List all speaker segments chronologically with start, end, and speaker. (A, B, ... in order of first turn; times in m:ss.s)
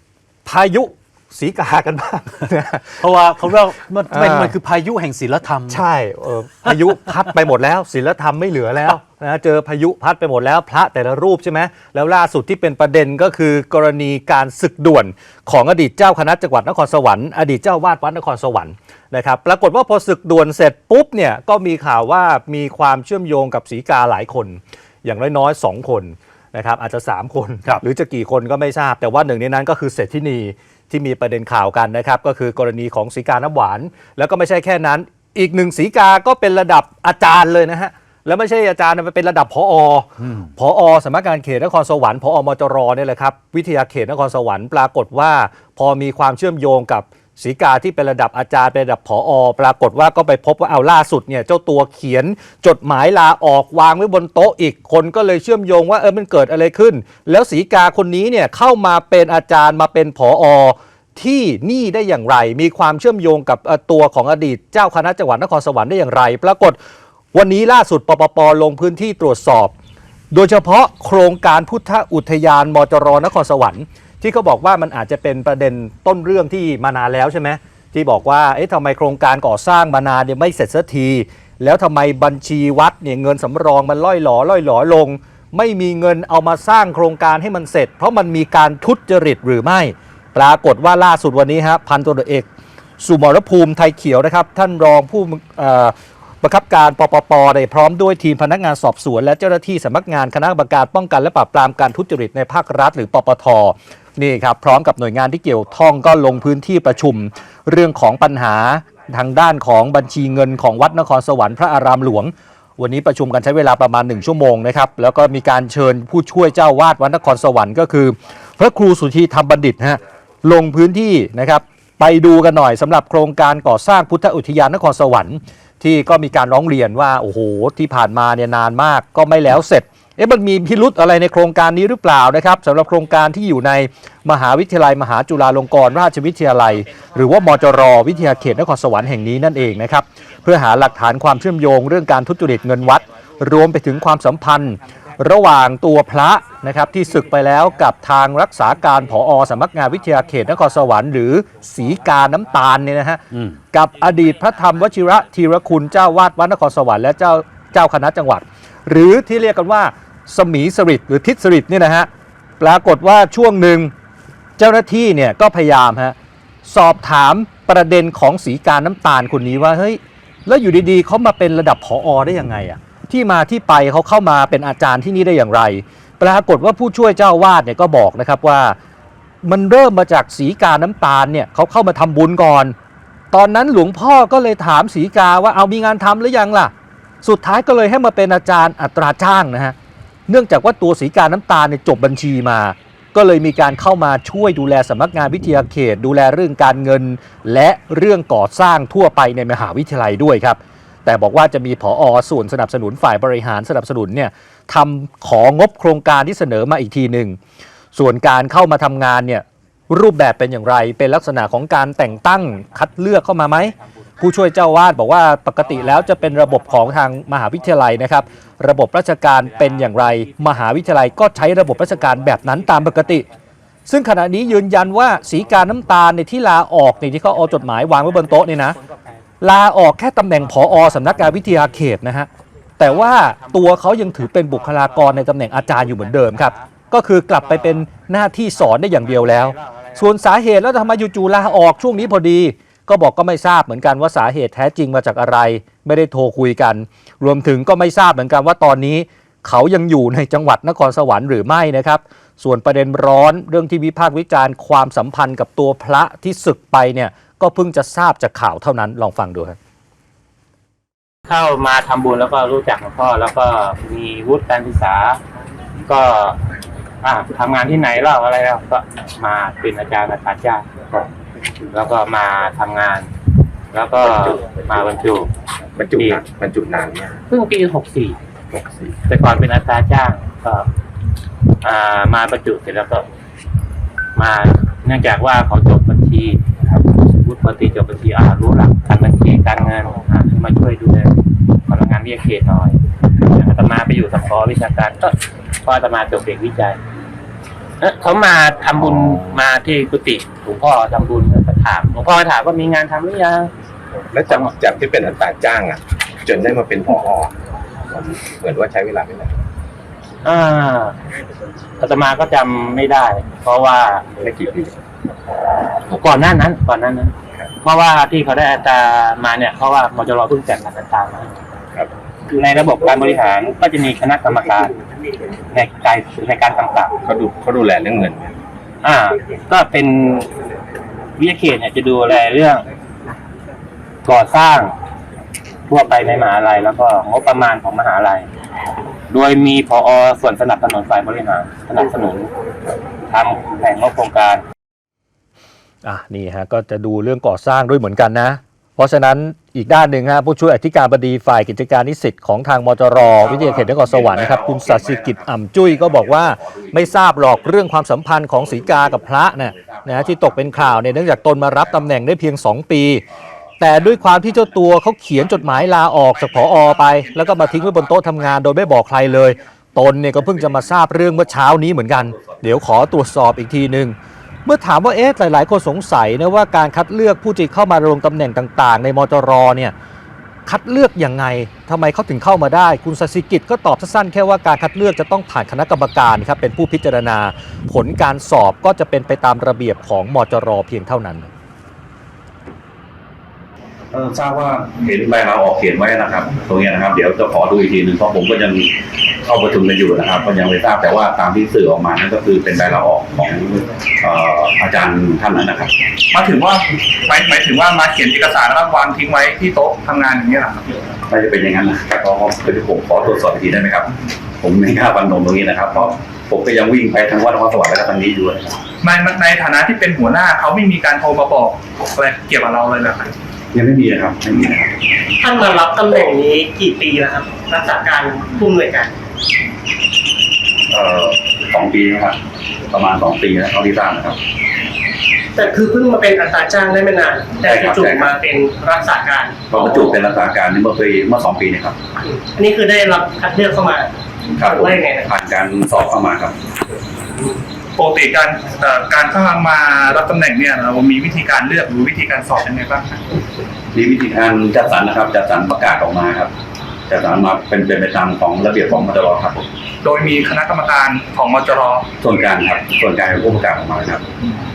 0:00.4-0:03.0 A
0:03.0-0:05.8 B
0:04.1-0:04.5 A
0:05.7-1:06.8 A
0:06.7-0:07.3 B
1:07.3-1:09.7 A
1:10.3-1:32.5 A
1:33.0-2:42.1 A
2:42.6-2:43.9 A
2:44.6-2:58.8 A
2:59.4-3:02.7 A
3:03.3-3:06.7 A
3:07.2-3:09.8 A
3:10.3-3:27.4 A
3:27.9-3:43.2 A
3:39.5-3:40.6 C
3:42.1-3:43.3 C
3:43.9-3:48.8 A
3:47.4-3:49.1 C
3:49.4-4:19.6 A
3:50.4-3:51.8 C
3:52.8-3:56.7 C
3:57.4-3:57.8 C
3:58.5-4:00.1 C
4:21.3-4:25.2 C
4:25.8-4:26.4 C
4:27.0-4:30.6 C
4:31.6-4:33.1 C
4:33.7-4:35.3 C
4:34.1-4:34.6 D
4:35.7-4:37.2 D
4:35.9-4:36.2 C
4:37.3-4:38.2 C
4:38.5-4:39.0 D
4:39.0-4:40.6 C
4:41.6-4:43.0 C
4:44.2-4:51.2 C
4:51.7-4:56.8 C
4:57.8-5:03.5 C
4:58.8-4:59.4 D
5:04.1-5:07.3 D
5:04.3-5:04.6 C
5:07.9-5:09.4 D
5:10.2-5:11.0 C
5:11.8-5:14.1 C
5:14.2-5:14.8 D
5:15.9-5:21.4 C
5:22.3-5:24.8 C
5:25.5-5:27.0 C
5:27.0-5:28.3 D
5:28.8-5:30.3 C
5:31.2-5:32.6 C
5:34.0-5:34.7 C
5:35.7-5:38.3 C
5:39.1-5:42.3 C
5:43.1-5:44.4 C
5:45.8-6:03.0 A
5:53.1-5:57.5 E
5:58.4-6:00.8 E
6:03.6-6:13.9 A
6:06.1-6:08.3 F
6:12.2-6:12.4 E
6:14.4-6:19.7 A
6:20.4-6:31.3 A
6:33.9-6:38.7 E
6:39.2-6:45.7 E
6:46.1-6:50.9 F
6:51.1-6:58.6 E
6:58.8-7:03.1 F
7:03.5-7:04.7 E
7:05.2-7:08.9 G
7:10.7-7:14.2 E
7:15.4-7:19.3 G
7:17.4-7:18.2 E
7:19.5-7:21.8 E
7:22.3-7:23.9 G
7:24.4-7:26.4 E
7:24.6-7:25.0 G
7:27.8-7:33.0 F
7:33.7-7:36.3 E
7:36.9-7:39.5 E
7:39.8-7:41.8 F
7:42.0-7:44.0 E